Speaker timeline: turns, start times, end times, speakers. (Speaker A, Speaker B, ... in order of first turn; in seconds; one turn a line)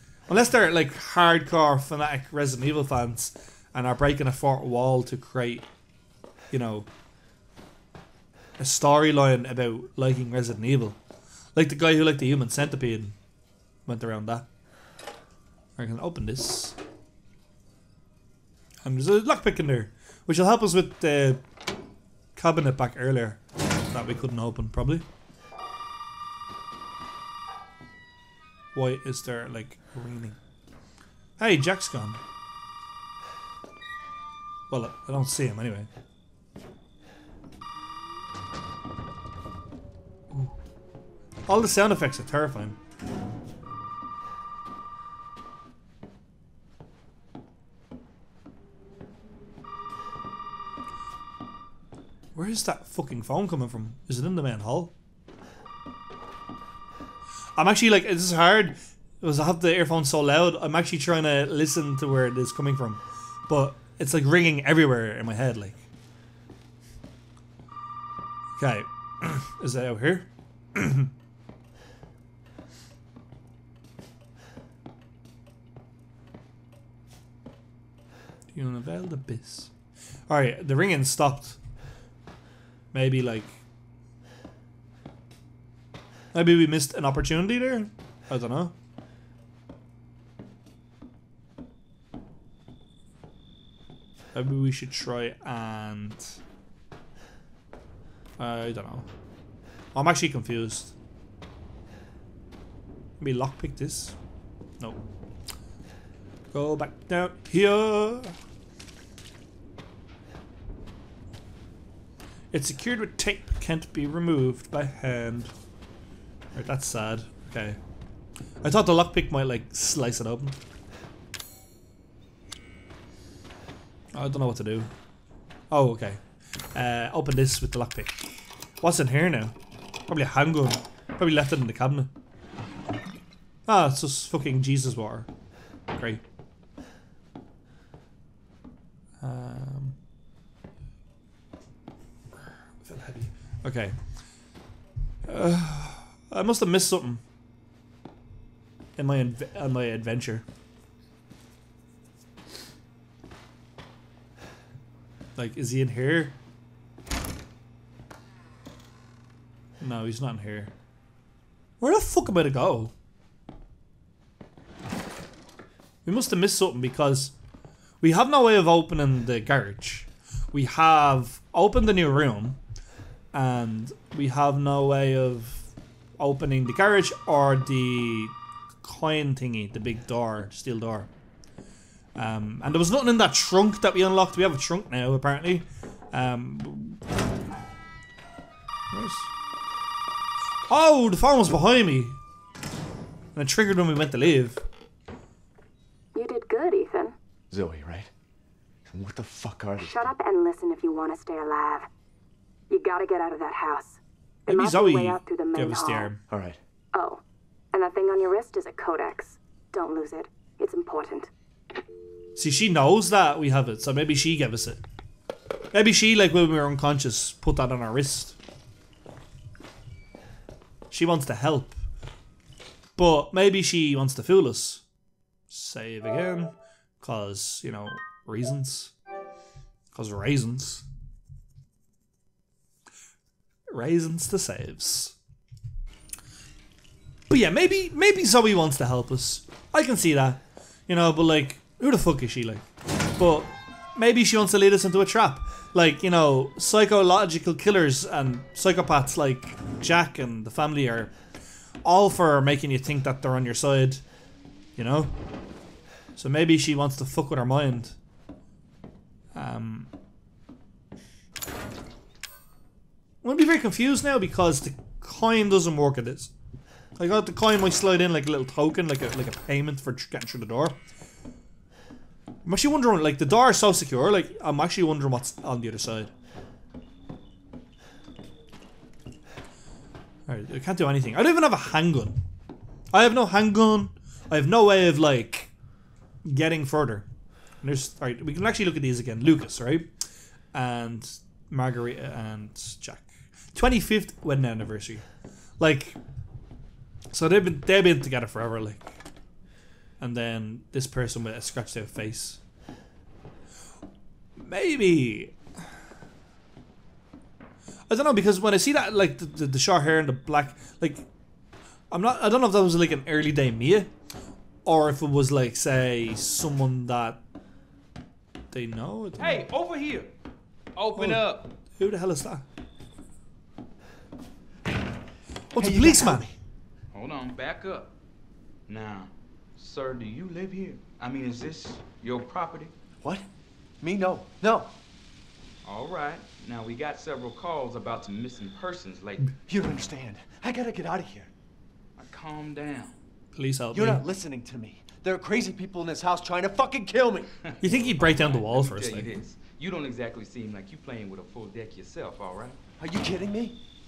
Speaker A: 0.3-5.7
Speaker A: 6.5-6.9
Speaker A: 8.6-11.0
Speaker A: 11.6-13.2
Speaker A: 13.9-14.5
Speaker A: 15.8-16.8
Speaker A: 18.8-21.4
Speaker A: 22.4-25.0
Speaker A: 28.8-30.4
Speaker A: 31.4-32.2
Speaker A: 34.7-35.9
Speaker A: 41.5-42.8
Speaker A: 52.4-54.9
Speaker A: 57.6-65.8
Speaker A: 68.6-71.1
Speaker A: 78.5-79.7
Speaker A: 80.3-81.6
Speaker A: 82.9-83.6
Speaker A: 86.3-88.7
Speaker A: 94.3-96.4
Speaker A: 98.4-99.1
Speaker A: 100.0-100.9
Speaker A: 103.2-104.2
Speaker A: 106.5-108.4
Speaker A: 112.5-115.5
Speaker A: 116.5-117.8
Speaker A: 118.6-120.6
Speaker A: 124.1-124.9
Speaker A: 125.7-126.2
Speaker A: 126.7-128.2
Speaker A: 128.8-129.6
Speaker A: 130.1-132.1
Speaker A: 133.7-135.3
Speaker A: 135.9-136.2
Speaker A: 139.2-140.0
Speaker A: 142.8-144.0
Speaker A: 145.2-147.2
Speaker A: 149.0-150.4
Speaker A: 155.3-156.4
Speaker A: 159.8-160.7
Speaker A: 161.8-162.9
Speaker A: 166.0-167.3
Speaker A: 168.0-172.6
Speaker A: 173.3-181.1
Speaker A: 182.2-187.0
Speaker A: 188.9-189.3
Speaker A: 190.7-192.2
Speaker A: 193.3-194.6
Speaker B: 196.1-197.2
Speaker C: 197.5-198.1
Speaker C: 198.9-200.0
Speaker B: 199.8-201.9
Speaker B: 202.7-206.1
Speaker A: 204.5-206.2
Speaker C: 206.3-206.6
Speaker B: 206.9-207.2
Speaker B: 207.7-211.3
Speaker A: 212.3-214.8
Speaker A: 215.7-218.4
Speaker A: 220.9-221.8
Speaker A: 223.0-224.8
Speaker A: 225.5-228.9
Speaker A: 229.9-230.8
Speaker A: 233.7-235.2
Speaker A: 237.3-242.6
Speaker A: 243.2-251.1
Speaker A: 251.8-254.0
Speaker A: 254.8-255.1
Speaker A: 256.2-258.0
Speaker A: 259.3-259.9
Speaker A: 263.2-266.3
Speaker A: 267.0-270.8
Speaker A: 272.4-276.1
Speaker A: 280.3-282.2
Speaker A: 282.9-285.5
Speaker A: 286.2-287.1
Speaker A: 287.6-289.9
Speaker A: 290.5-295.0
Speaker A: 295.6-296.0
Speaker A: 297.1-298.9
Speaker A: 300.0-302.4
Speaker A: 304.4-305.4
Speaker A: 307.9-311.1
Speaker A: 311.9-313.9
Speaker A: 314.6-317.2
Speaker A: 318.5-319.4
Speaker D: 319.2-320.1
Speaker D: 320.8-321.5
Speaker A: 320.9-322.4
Speaker A: 325.5-326.3
Speaker C: 325.5-326.3
Speaker D: 326.9-327.9
Speaker D: 328.7-332.7
Speaker C: 333.0-333.3
Speaker C: 333.8-334.8
Speaker D: 335.6-339.3
Speaker C: 339.5-341.3
Speaker D: 342.0-343.0
Speaker A: 343.3-344.0
Speaker C: 343.7-347.3
Speaker D: 347.4-352.6
Speaker A: 347.6-349.1
Speaker C: 352.8-353.6